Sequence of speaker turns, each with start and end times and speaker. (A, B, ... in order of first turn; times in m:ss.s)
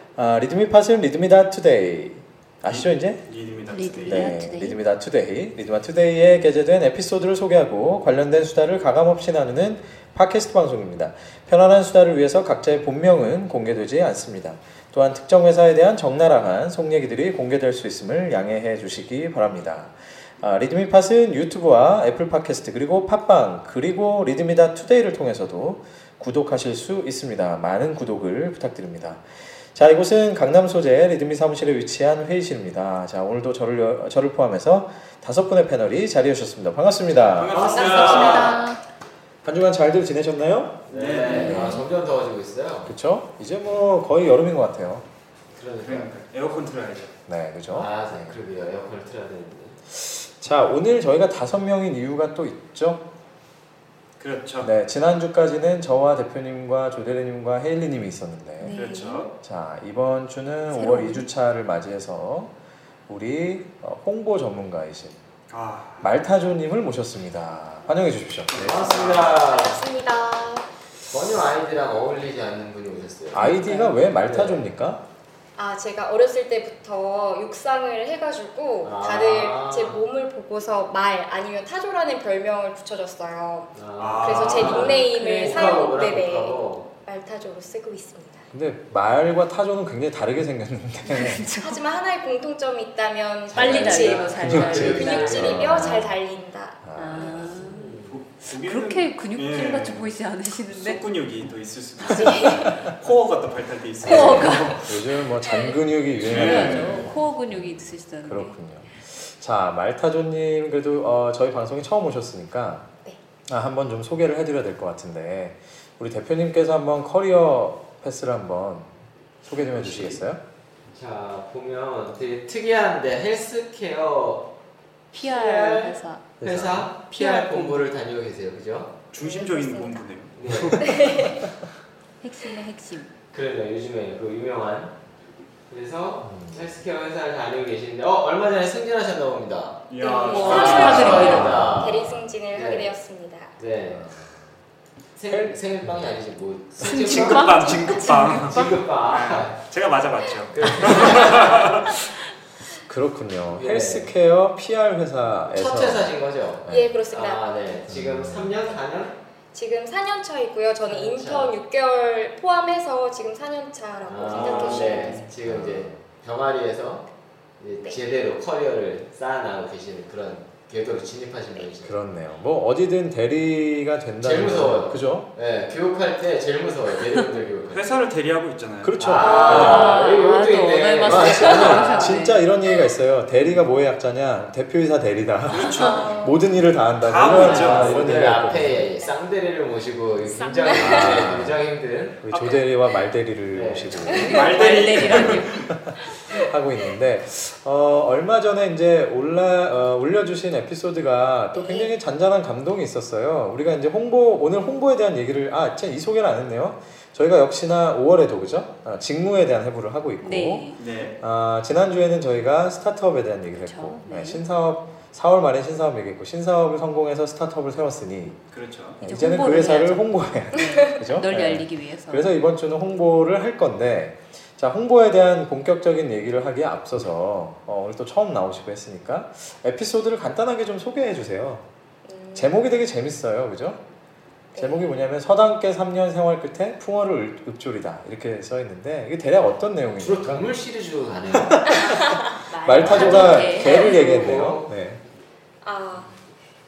0:00.2-0:03.2 A
0:02.7-0:04.4 B
0:03.7-0:04.8 C
0:04.0-0:37.8 A
0:37.2-0:38.6 B
0:37.5-0:38.6 D
0:37.7-0:38.8 E
0:37.9-0:38.8 C
0:39.4-0:40.8 A
0:40.9-0:42.9 D
0:40.9-0:41.8 B
0:41.2-0:41.9 C
0:41.4-0:41.8 A
0:42.8-0:45.0 A
0:45.5-0:46.1 D
0:45.8-0:47.1 B
0:47.3-0:48.3 A
0:47.7-0:49.8 D
0:49.9-0:53.1 A
0:54.2-0:54.7 B
0:54.6-0:58.8 A
0:58.6-0:59.3 C
0:58.7-0:59.3 B
0:59.4-1:02.5 A
1:00.7-1:01.2 C
1:03.1-1:05.2 A
1:05.5-1:06.1 B
1:06.0-1:09.0 A
1:08.5-1:09.4 B
1:08.6-1:09.8 D
1:09.3-1:10.7 E
1:11.1-1:14.6 D
1:13.3-1:15.0 A
1:15.6-1:28.5 E
1:18.8-1:20.0 D
1:23.8-1:26.8 D
1:24.0-1:25.0 B
1:24.8-1:25.9 C
1:28.5-1:31.4 A
1:31.0-1:31.8 C
1:31.6-1:36.8 E
1:33.5-1:36.0 D
1:33.5-1:35.6 C
1:34.4-1:36.1 A
1:36.8-1:37.5 A
1:37.0-1:41.0 C
1:37.1-1:38.2 D
1:38.1-1:40.1 B
1:40.7-1:44.9 B
1:42.1-1:42.8 C
1:42.1-1:42.5 E
1:44.0-1:48.6 C
1:44.0-1:52.9 A
1:46.2-1:47.1 B
1:53.5-1:58.9 A
1:59.4-2:00.4 A
1:59.6-2:00.2 B
2:00.9-2:04.5 D
2:05.1-2:09.0 D
2:05.1-2:06.4 C
2:06.4-2:06.9 A
2:07.1-2:07.9 C
2:09.1-2:11.1 B
2:09.2-2:10.0 E
2:09.5-2:09.9 C
2:10.4-2:11.0 D
2:10.8-2:11.5 E
2:12.2-2:13.1 C
2:13.3-2:15.0 D
2:15.7-2:19.8 D
2:16.2-2:16.7 A
2:19.9-2:21.6 B
2:20.0-2:23.6 E
2:20.0-2:21.7 C
2:20.4-2:22.9 D
2:20.8-2:22.1 A
2:23.6-2:24.1 D
2:23.9-2:24.6 A
2:25.2-2:29.6 D
2:25.3-2:26.2 A
2:26.8-2:28.8 C
2:26.8-2:32.0 B
2:30.5-2:31.9 D
2:32.9-2:36.1 A
2:33.5-2:34.1 D
2:35.5-2:39.2 D
2:36.7-2:37.5 E
2:37.9-2:38.6 A
2:39.5-2:45.2 E
2:40.9-2:41.5 D
2:44.1-2:47.1 D
2:44.3-2:45.1 B
2:44.8-2:46.0 A
2:47.6-2:52.0 D
2:51.8-2:55.3 A
2:54.2-2:57.8 D
2:57.7-3:00.0 B
2:58.8-3:00.0 A
2:59.0-3:02.2 D
2:59.2-3:02.4 C
3:01.0-3:08.8 A
3:05.5-3:06.1 B
3:05.8-3:06.4 E
3:07.0-3:08.2 B
3:07.2-3:12.2 D
3:10.3-3:11.3 E
3:10.7-3:11.6 A
3:12.2-3:30.7 A
3:12.3-3:12.6 E
3:13.5-3:14.2 D
3:14.1-3:16.5 C
3:14.2-3:15.7 B
3:21.5-3:21.9 E
3:30.2-3:30.8 C
3:30.8-3:31.2 B
3:31.2-3:38.4 A
3:33.6-3:34.4 C
3:38.5-3:39.0 B
3:39.0-3:42.3 C
3:39.0-3:51.7 A
3:52.0-3:52.6 E
3:52.3-3:53.8 A
3:54.5-3:54.9 E
3:54.6-4:00.5 A
4:00.0-4:01.7 D
4:01.3-4:02.0 A
4:01.7-4:04.3 C
4:02.6-4:05.0 A
4:02.8-4:04.7 D
4:05.6-4:06.2 E